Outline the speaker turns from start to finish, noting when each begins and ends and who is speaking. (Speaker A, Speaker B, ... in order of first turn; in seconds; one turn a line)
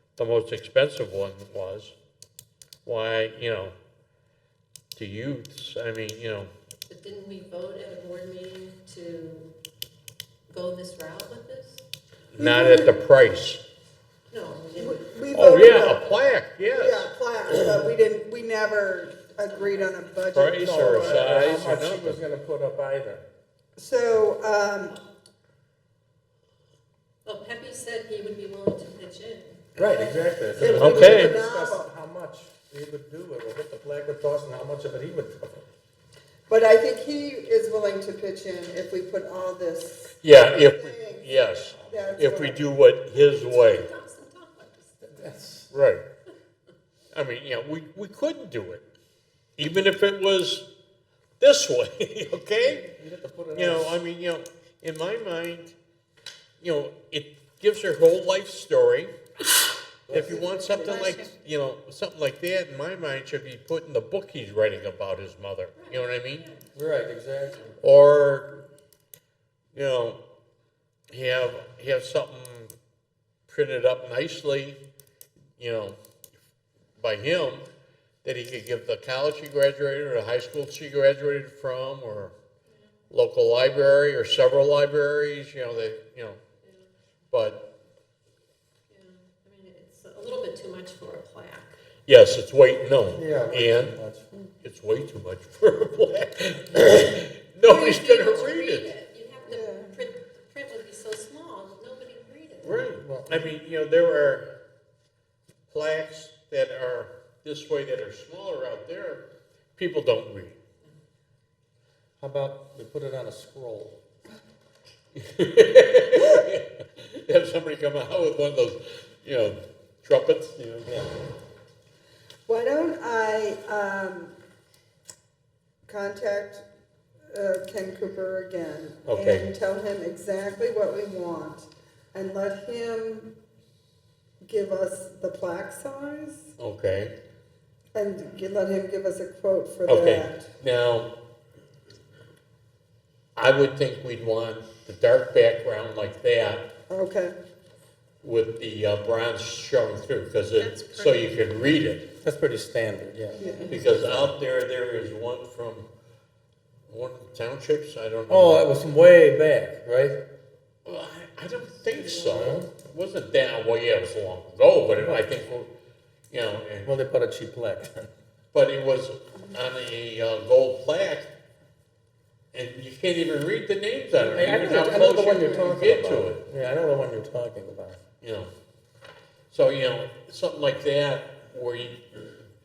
Speaker A: 0.2-1.9
Speaker A: 2.8-3.7
Speaker A: 5.0-6.5
Speaker B: 6.9-9.5
Speaker B: 10.5-11.8
Speaker A: 12.3-13.6
Speaker C: 12.4-13.0
Speaker B: 14.3-15.0
Speaker C: 14.8-16.1
Speaker A: 15.3-17.1
Speaker C: 16.7-21.3
Speaker A: 20.3-22.2
Speaker D: 20.6-23.2
Speaker C: 23.8-25.0
Speaker B: 27.2-29.7
Speaker D: 29.8-35.7
Speaker C: 29.8-31.9
Speaker A: 30.6-31.4
Speaker C: 36.5-42.7
Speaker A: 40.2-43.9
Speaker B: 43.1-45.1
Speaker D: 45.0-45.7
Speaker A: 45.7-46.0
Speaker A: 47.1-48.8
Speaker A: 49.6-50.7
Speaker A: 51.4-52.9
Speaker D: 52.6-54.0
Speaker A: 53.5-55.7
Speaker A: 56.6-59.1
Speaker D: 60.1-60.5
Speaker A: 60.1-66.4
Speaker C: 60.4-61.2
Speaker B: 60.9-61.1
Speaker B: 65.8-66.7
Speaker D: 66.7-67.8
Speaker A: 67.8-68.5
Speaker A: 69.7-70.2
Speaker A: 71.1-72.7
Speaker A: 73.5-74.8
Speaker A: 75.6-76.0
Speaker A: 77.0-77.6
Speaker A: 78.2-82.3
Speaker A: 83.1-86.4
Speaker A: 87.3-87.6
Speaker B: 88.9-91.7
Speaker A: 92.1-93.9
Speaker D: 93.1-94.3
Speaker A: 94.6-98.9
Speaker B: 97.6-102.8
Speaker C: 99.5-99.9
Speaker D: 102.6-103.5
Speaker A: 102.6-104.5
Speaker A: 105.7-110.6
Speaker D: 112.2-114.0
Speaker A: 115.2-120.9
Speaker D: 120.8-121.1
Speaker C: 122.5-124.3
Speaker C: 125.9-126.6
Speaker C: 127.3-133.3
Speaker A: 129.1-129.5
Speaker C: 134.4-136.5
Speaker A: 136.6-137.1
Speaker C: 137.9-140.4
Speaker A: 139.8-141.2
Speaker A: 143.3-146.7
Speaker C: 146.9-147.3
Speaker A: 148.2-152.1
Speaker B: 150.6-151.6
Speaker D: 152.2-154.3
Speaker C: 153.3-153.8
Speaker B: 153.4-153.8
Speaker A: 153.7-155.9
Speaker A: 156.9-158.7
Speaker D: 158.3-160.2
Speaker A: 160.8-165.7
Speaker D: 162.2-162.7
Speaker D: 164.9-165.3
Speaker A: 166.3-166.9
Speaker D: 166.8-168.1
Speaker A: 168.5-171.3
Speaker A: 172.5-176.4
Speaker D: 174.3-178.0
Speaker A: 178.2-178.5
Speaker A: 179.5-182.3